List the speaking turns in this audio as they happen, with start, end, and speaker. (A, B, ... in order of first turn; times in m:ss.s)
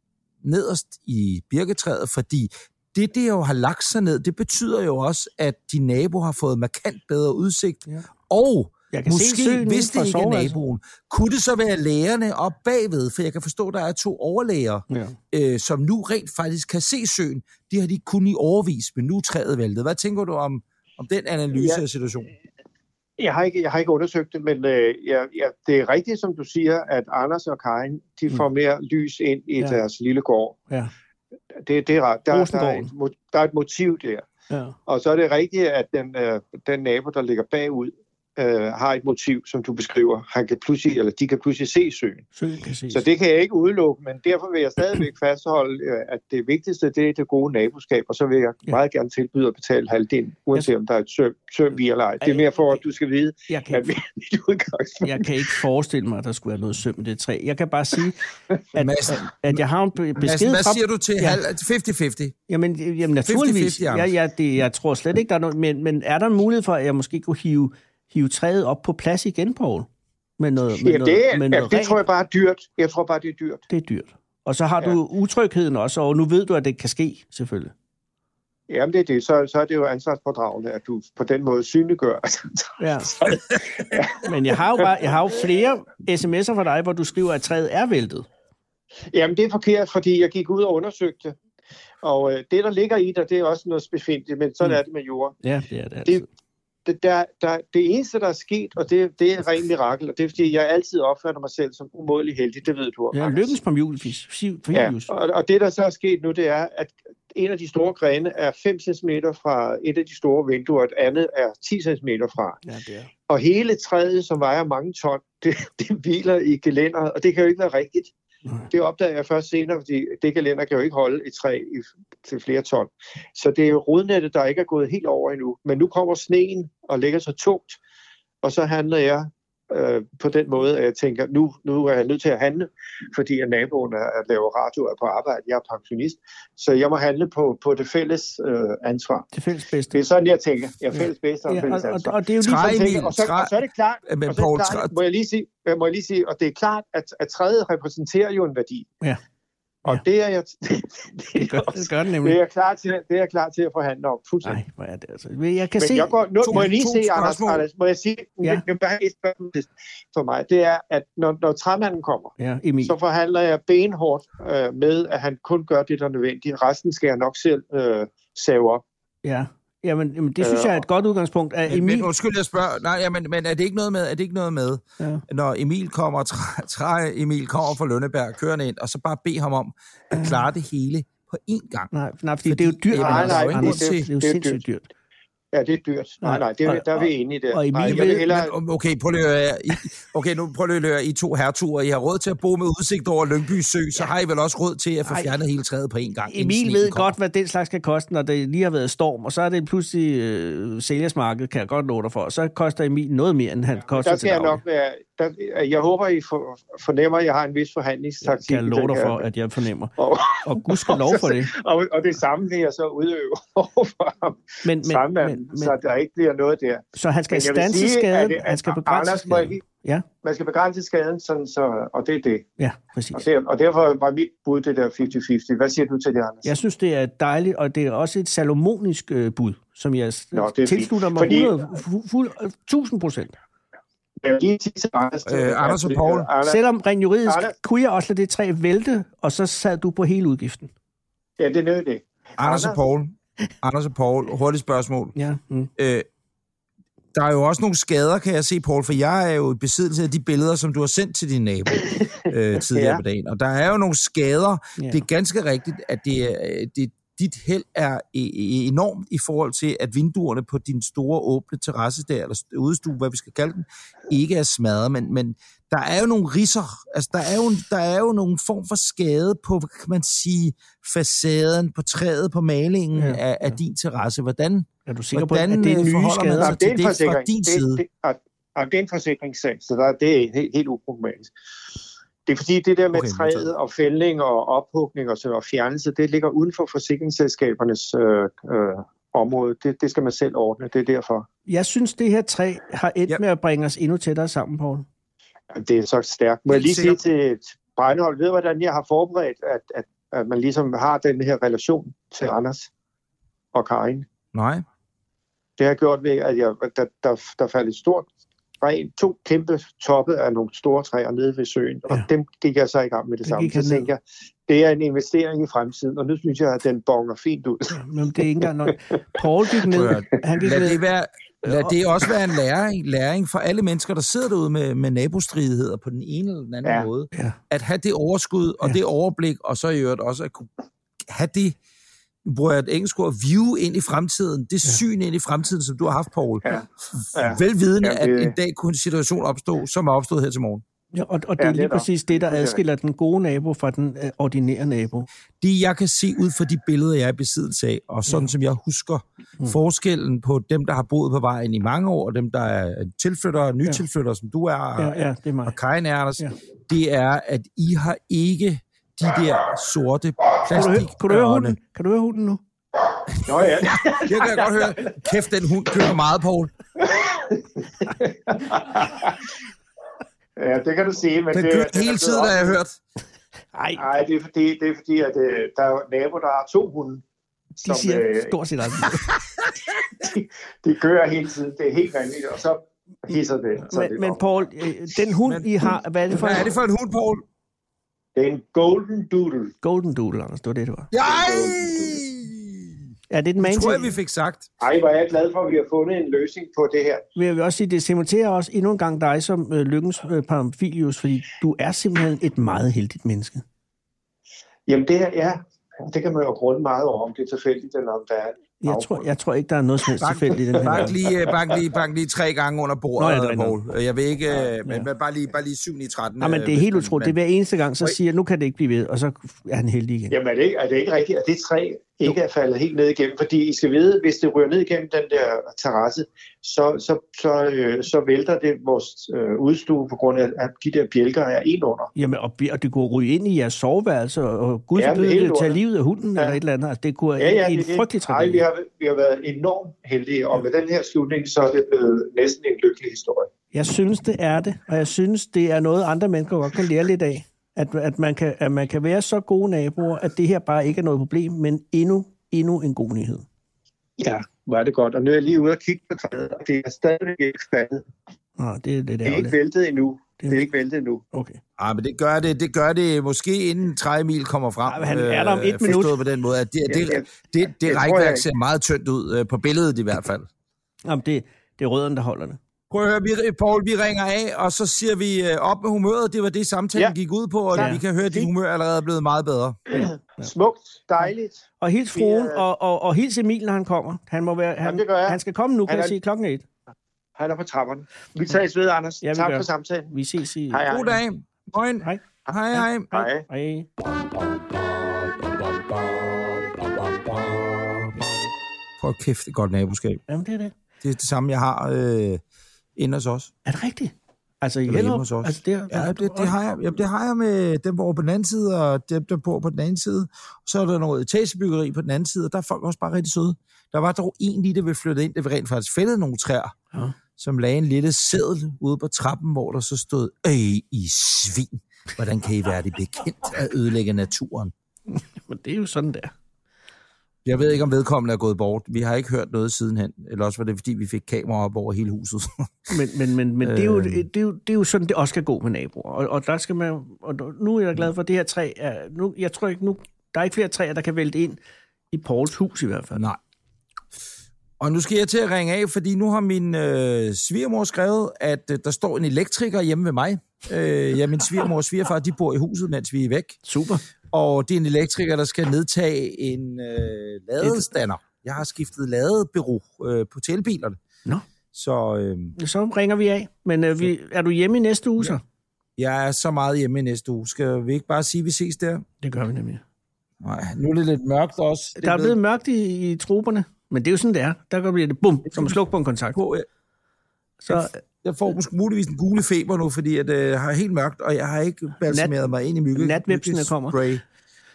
0:00.4-0:22.3 A
0:08.9-0:10.6 B
0:14.9-0:15.2 B
0:21.6-0:21.8 C
0:23.2-0:30.6 C
0:31.6-0:34.2 C
0:32.3-0:32.9 B
0:34.5-0:34.8 B
0:34.9-0:42.2 C
0:42.3-0:43.0 B
0:42.9-0:55.5 C
0:52.2-0:52.8 B
0:53.5-0:53.9 B
0:55.0-1:01.4 B
0:58.8-0:59.6 A
1:00.2-1:02.3 A
1:02.5-1:09.9 B
1:03.2-1:04.1 A
1:10.4-1:12.0 B
1:10.8-1:13.6 C
1:13.7-1:17.7 B
1:18.7-1:25.1 C
1:22.8-1:23.1 B
1:24.2-1:28.3 B
1:29.1-1:31.4 C
1:32.0-1:35.4 C
1:35.4-1:36.2 B
1:36.8-1:43.6 C
1:43.1-1:45.1 B
1:44.7-1:52.6 C
1:52.6-1:53.1 B
1:53.3-1:58.1 C
1:58.7-2:07.8 C
2:08.4-2:19.3 C
2:19.3-2:20.0 B
2:19.9-2:28.9 C
2:20.9-2:22.8 B
2:22.4-2:23.5 A
2:24.0-2:25.0 A
2:29.8-2:34.6 C
2:31.3-2:32.4 B
2:34.4-2:36.6 B
2:35.8-2:48.8 C
2:36.4-2:37.6 A
2:42.4-2:42.9 B
2:49.2-2:52.1 B
2:50.4-2:50.8 C
2:51.7-3:01.9 A
3:00.1-3:00.4 B
3:01.9-3:04.9 B
3:02.4-3:04.0 A
3:02.9-3:04.6 C
3:05.5-3:08.5 C
3:06.2-3:08.3 B
3:07.8-3:17.1 A
3:15.0-3:15.3 B
3:16.3-3:24.6 B
3:23.9-3:29.2 C
3:28.2-3:31.5 B
3:30.0-3:39.6 C
3:34.6-3:35.7 B
3:36.9-3:40.0 B
3:40.2-3:42.5 C
3:42.6-3:43.2 B
3:43.1-3:46.5 C
3:46.4-3:53.4 B
3:50.3-3:51.7 C
3:54.2-3:56.6 C
3:55.2-3:56.3 A
3:56.4-4:00.7 B
3:57.3-3:57.5 C
4:01.4-4:02.8 C
4:02.4-4:05.1 A
4:05.2-4:05.7 B
4:05.8-4:06.1 A
4:07.1-4:37.8 A
4:11.8-4:12.2 C
4:12.7-4:13.0 C
4:14.8-4:15.0 B
4:33.0-4:33.5 B
4:34.9-4:36.5 B
4:36.4-4:41.3 C
4:42.2-4:51.3 C
4:42.9-4:43.5 A
4:51.5-4:54.8 B
4:55.5-5:02.7 C
4:56.5-4:57.0 A
5:03.5-5:04.0 C
5:04.3-5:04.6 A
5:05.6-5:08.1 C
5:08.6-5:17.8 C
5:13.2-5:13.9 B
5:17.7-5:20.8 B
5:18.6-5:19.2 C
5:19.7-5:30.5 A
5:21.4-5:21.8 B
5:27.1-5:27.4 B
5:31.0-5:31.6 A
5:32.2-5:36.4 A
5:36.4-5:38.3 C
5:37.0-5:40.6 A
5:40.9-5:45.1 B
5:41.4-5:42.6 C
5:45.4-6:01.6 A
5:54.8-5:55.6 B
6:00.5-6:02.4 B
6:03.2-6:05.0 C
6:03.6-6:06.5 A
6:06.8-6:09.3 C
6:10.4-6:12.6 C
6:11.3-6:12.8 A
6:13.5-6:13.8 B
6:13.8-6:17.0 C
6:17.6-6:18.3 C
6:17.6-6:19.1 B
6:19.9-6:24.5 C
6:23.7-6:26.5 B
6:25.3-6:27.2 A
6:28.1-6:29.5 C
6:29.6-6:30.9 B
6:30.9-6:32.8 A
6:31.0-6:32.0 C
6:33.1-6:33.9 B
6:33.4-6:34.5 A
6:34.6-6:37.0 C
6:37.2-6:43.4 B
6:44.7-6:49.1 C
6:48.6-6:51.0 B
6:50.0-6:57.2 A
6:50.6-6:51.4 C
6:53.0-6:53.6 B
6:56.2-7:00.1 B
7:00.1-7:11.9 C
7:11.9-7:18.4 B
7:14.8-7:15.6 C
7:17.2-7:23.3 C
7:23.5-7:33.2 B
7:34.0-7:37.8 C
7:38.4-7:39.4 B
7:39.0-7:41.0 C
7:41.1-7:41.4 B
7:41.6-7:50.3 A
7:44.7-7:45.9 B
7:46.7-7:48.2 C
7:50.8-7:52.4 B
7:52.7-7:59.6 A
7:57.5-7:57.8 B
7:57.5-7:58.3 C
7:59.7-8:01.4 C
7:59.7-8:00.3 B
8:01.6-8:06.4 B
8:01.9-8:02.4 C
8:04.6-8:06.0 C
8:07.2-8:09.9 C
8:09.0-8:10.7 B
8:10.5-8:11.0 C
8:10.7-8:12.9 A
8:11.8-8:13.7 B
8:12.9-8:13.2 C
8:18.8-8:20.0 A
8:20.1-8:20.5 B
8:20.8-8:22.2 A
8:22.8-8:23.3 A
8:23.4-8:26.3 B
8:24.7-8:36.5 A
8:36.7-8:37.0 B
8:37.2-8:44.5 A
8:44.9-8:46.1 B
8:47.2-8:52.7 A
8:52.7-9:01.4 B
8:53.4-8:54.0 A
9:01.9-9:03.0 B
9:04.6-9:13.4 A
9:13.4-9:13.8 B
9:14.1-9:20.8 A
9:21.5-9:22.4 A
9:22.4-9:25.2 B
9:25.8-9:28.8 A
9:29.0-9:29.6 B
9:30.2-9:32.2 A
9:31.8-9:36.2 B
9:35.3-9:35.6 A
9:36.1-9:36.4 A
9:37.4-9:37.8 B
9:37.5-9:44.0 A
9:41.9-9:42.2 B
9:42.7-9:43.8 B